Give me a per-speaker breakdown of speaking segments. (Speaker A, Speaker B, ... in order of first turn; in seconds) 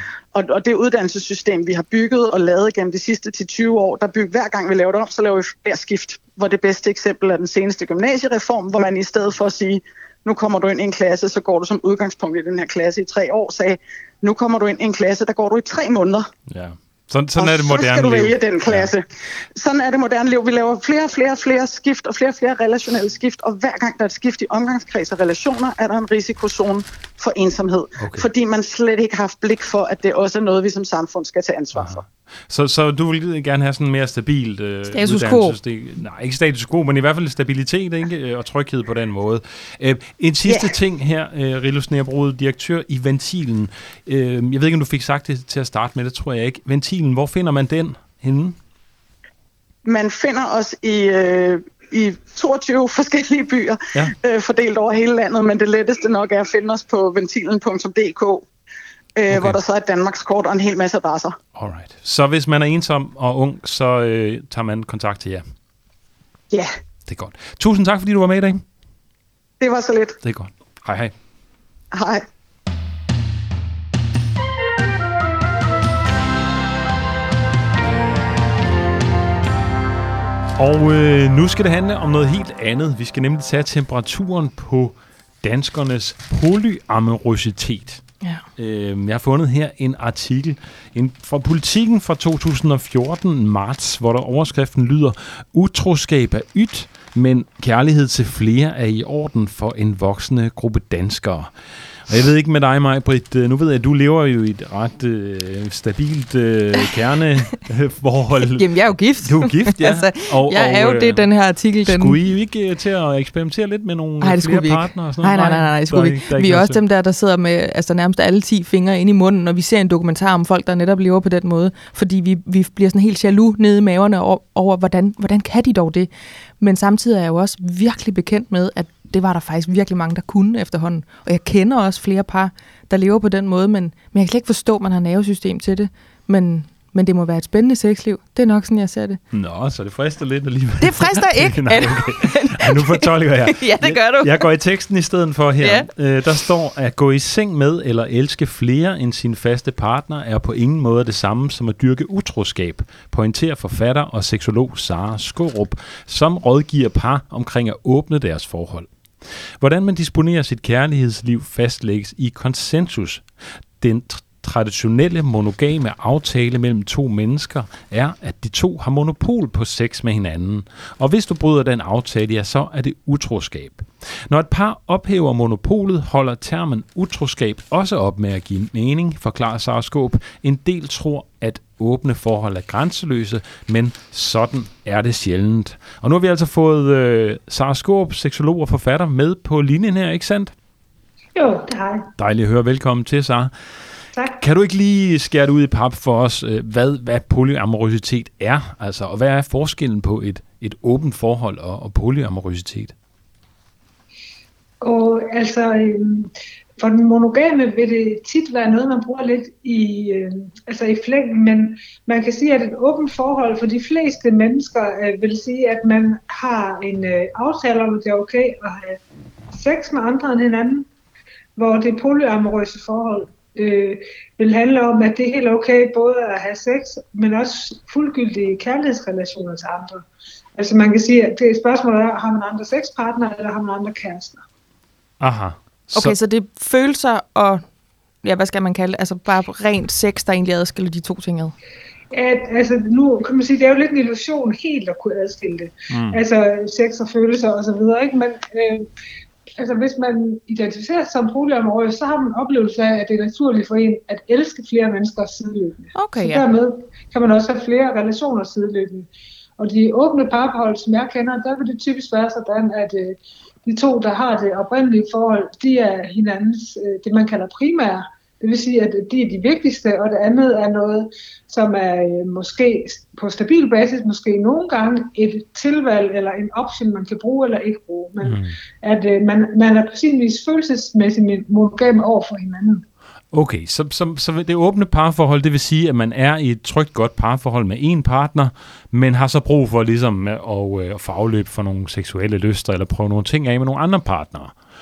Speaker A: 0.3-16.3, 17.4-32.0, 40.5-40.7, 49.9-58.5, 59.1-61.4, 69.6-70.2, 71.9-72.2
Speaker B: 16.5-18.9, 28.0-28.2, 31.7-48.5, 59.3-59.6, 61.5-65.4, 67.0-68.6, 70.2-71.1, 80.5-88.0, 88.6-101.5, 102.0-108.7, 109.2-111.2, 111.8-116.8, 139.3-190.5, 192.2-193.5, 194.3-202.9, 235.2-236.2, 245.9-246.2, 278.2-278.5, 283.3-294.5
Speaker C: 34.9-35.5, 108.5-112.2, 114.2-126.1, 126.6-139.2, 140.8-144.5, 145.6-145.9, 235.9-237.6, 238.2-241.5, 255.9-256.4
Speaker D: 191.3-192.1, 204.8-219.0, 219.5-220.9, 221.6-230.0, 230.6-234.4, 242.1-248.9, 249.6-282.8